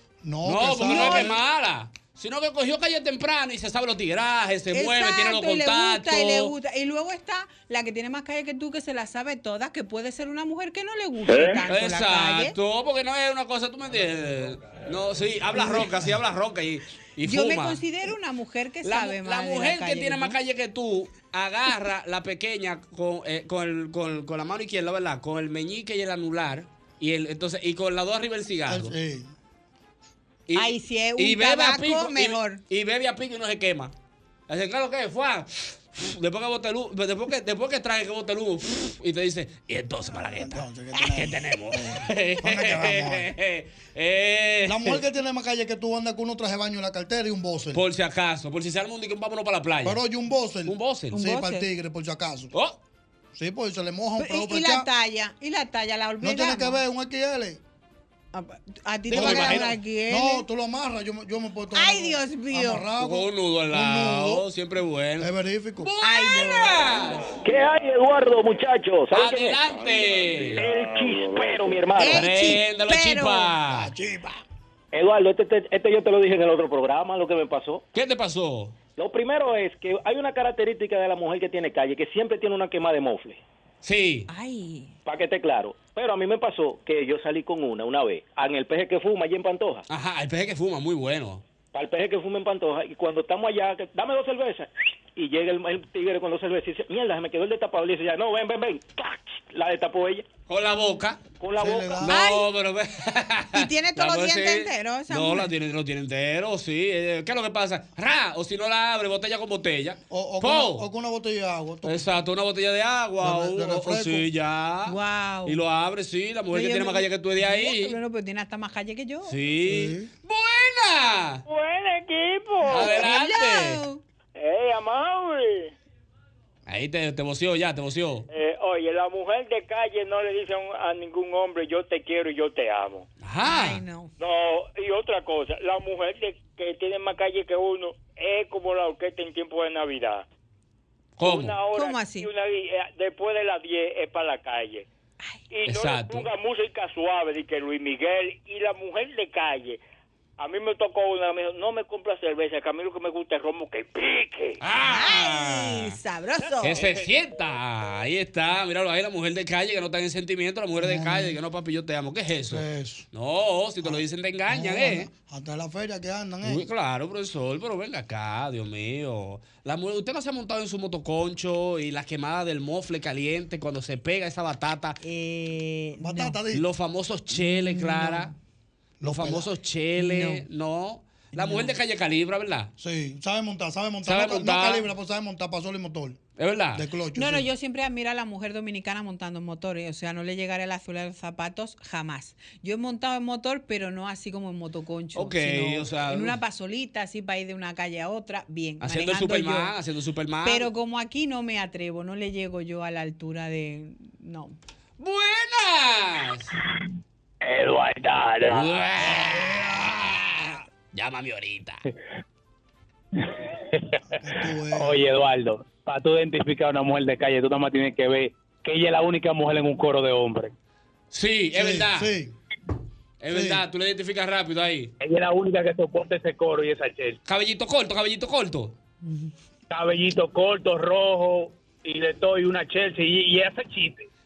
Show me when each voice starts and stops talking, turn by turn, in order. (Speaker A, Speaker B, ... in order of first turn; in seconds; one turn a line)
Speaker A: 0.2-1.4
Speaker B: 0.4-6.5
Speaker C: 0.9-1.4
Speaker C: 4.7-12.5
Speaker B: 11.7-17.8
Speaker C: 17.2-20.4
Speaker B: 18.8-28.9
Speaker A: 28.7-29.3
Speaker B: 30.5-33.9
Speaker C: 30.6-32.6
Speaker B: 34.5-45.0
Speaker A: 40.3-43.3
Speaker A: 44.7-47.8
Speaker B: 47.7-50.0
Speaker A: 49.8-52.5
Speaker B: 50.7-51.2
Speaker C: 51.1-51.7
Speaker A: 53.3-54.9
Speaker C: 54.2-56.8
Speaker A: 56.2-57.6
Speaker C: 58.3-60.4
Speaker B: 59.1-59.7
Speaker A: 59.1-64.5
Speaker C: 61.7-62.9
Speaker B: 63.0-65.3
Speaker A: 65.2-65.9
Speaker B: 65.8-67.4
Speaker C: 66.0-66.8
Speaker D: 67.5-69.6
Speaker B: 69.1-70.7
Speaker D: 70.5-72.2
Speaker C: 72.0-73.5
Speaker B: 72.0-73.9
Speaker A: 73.7-74.4
Speaker D: 74.9-77.8
Speaker B: 77.9-78.8
Speaker D: 79.0-83.4
Speaker B: 83.8-84.3
Speaker C: 84.3-84.9
Speaker D: 85.1-89.8
Speaker B: 89.9-91.4
Speaker D: 91.7-100.3
Speaker B: 100.5-101.2
Speaker D: 101.4-102.1
Speaker A: 101.6-102.1
Speaker B: 102.0-110.9
Speaker C: 102.1-102.5
Speaker C: 103.5-105.5
Speaker A: 110.1-112.0
Speaker B: 111.8-118.0
Speaker A: 113.2-114.3
Speaker C: 114.9-115.6
Speaker C: 116.5-119.3
Speaker B: 119.3-121.4
Speaker A: 119.7-120.1
Speaker E: 121.5-123.0
Speaker C: 122.7-124.0
Speaker B: 122.7-123.8
Speaker E: 124.3-125.7
Speaker B: 126.7-128.2
Speaker E: 128.3-133.1
Speaker B: 133.2-133.8
Speaker C: 133.4-134.1
Speaker E: 134.2-140.2
Speaker B: 141.2-141.6
Speaker E: 141.2-144.9
Speaker C: 141.7-142.3
Speaker E: 145.5-149.8
Speaker B: 145.7-146.3
Speaker E: 150.4-154.6
Speaker B: 154.6-156.0
Speaker C: 154.8-156.8
Speaker B: 156.6-165.1
Speaker A: 160.8-161.3
Speaker A: 162.5-163.1
Speaker A: 163.8-166.7
Speaker B: 166.4-175.0
Speaker C: 175.0-176.3
Speaker A: 176.0-176.6
Speaker B: 176.5-178.3
Speaker A: 179.0-179.5
Speaker B: 179.1-182.7
Speaker C: 180.0-180.4
Speaker C: 181.4-181.7
Speaker A: 182.8-186.2
Speaker B: 184.1-184.9
Speaker B: 186.4-186.8
Speaker A: 186.8-187.5
Speaker C: 187.2-199.7
Speaker B: 195.2-196.4
Speaker B: 198.8-200.7
Speaker C: 200.4-204.6
Speaker B: 205.0-206.5
Speaker F: 207.4-208.6
Speaker B: 208.5-211.8
Speaker A: 214.1-215.0
Speaker F: 214.7-220.5
Speaker B: 221.1-222.1
Speaker A: 221.5-222.3
Speaker B: 223.2-224.9
Speaker A: 223.3-223.6
Speaker F: 225.0-227.2
Speaker B: 227.2-228.7
Speaker F: 229.7-234.1